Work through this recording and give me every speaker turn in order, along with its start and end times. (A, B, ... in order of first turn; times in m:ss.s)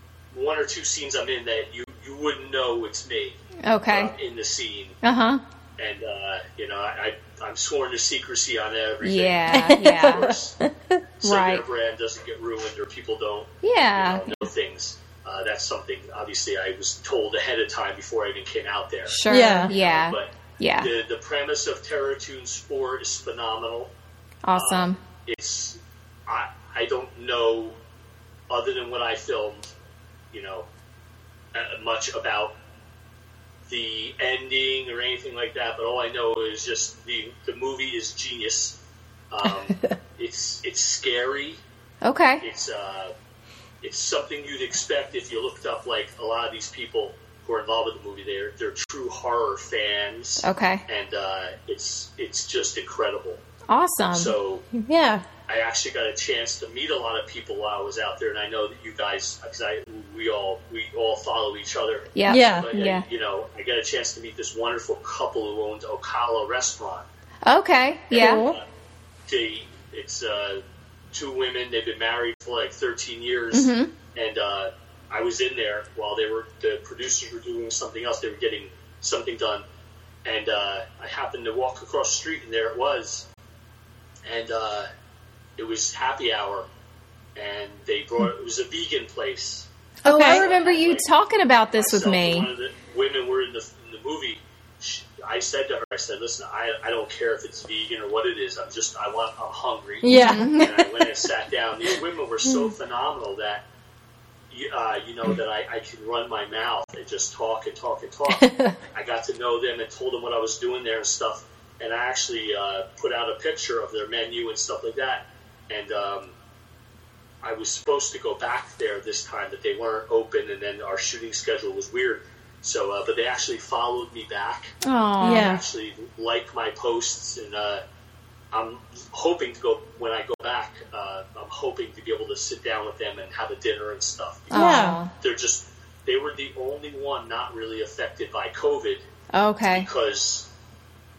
0:00.3-0:05.0 A
0:03.6-0:04.1 B
0:05.0-0:05.4 B
0:05.8-0:10.6 A
0:09.0-0:10.4 B
0:09.5-0:11.0 C
0:11.2-0:19.2 A
0:11.2-0:11.6 B
0:13.6-0:14.5 B
0:19.1-0:20.9 B
0:19.3-0:19.7 C
0:19.7-0:23.9 A
0:24.4-0:25.0 B
0:24.5-0:27.8 A
0:28.5-0:29.7 A
0:30.3-0:30.7 A
0:31.5-0:32.5 A
0:33.7-0:38.8 A
0:39.3-0:41.6 A
0:42.0-0:42.4 B
0:42.4-0:43.1 A
0:43.8-0:53.4 A
0:50.4-0:50.8 B
0:53.7-0:54.3 B
0:54.1-0:54.7 A
0:54.7-0:55.2 C
0:55.5-1:07.1 A
1:02.2-1:03.0 B
1:02.3-1:02.7 C
1:07.5-1:08.4 B
1:08.1-1:08.6 A
1:08.1-1:08.6 C
1:09.3-1:10.6 A
1:11.1-1:19.6 A
1:13.5-1:13.9 B
1:20.2-1:23.3 A
1:24.3-1:24.9 A
1:25.6-1:26.7 A
1:27.4-1:29.7 A
1:30.0-1:32.5 B
1:30.0-1:30.4 C
1:30.2-1:31.1 A
1:31.8-1:43.6 A
1:40.0-1:40.6 C
1:40.1-1:41.1 B
1:44.5-1:56.4 A
1:48.4-1:48.8 C
1:57.4-2:04.8 A
2:04.8-2:05.5 B
2:05.2-2:05.6 C
2:05.3-2:07.8 A
2:08.5-2:19.0 A
2:14.5-2:15.1 B
2:14.5-2:15.0 C
2:19.3-2:19.9 B
2:19.7-2:20.5 A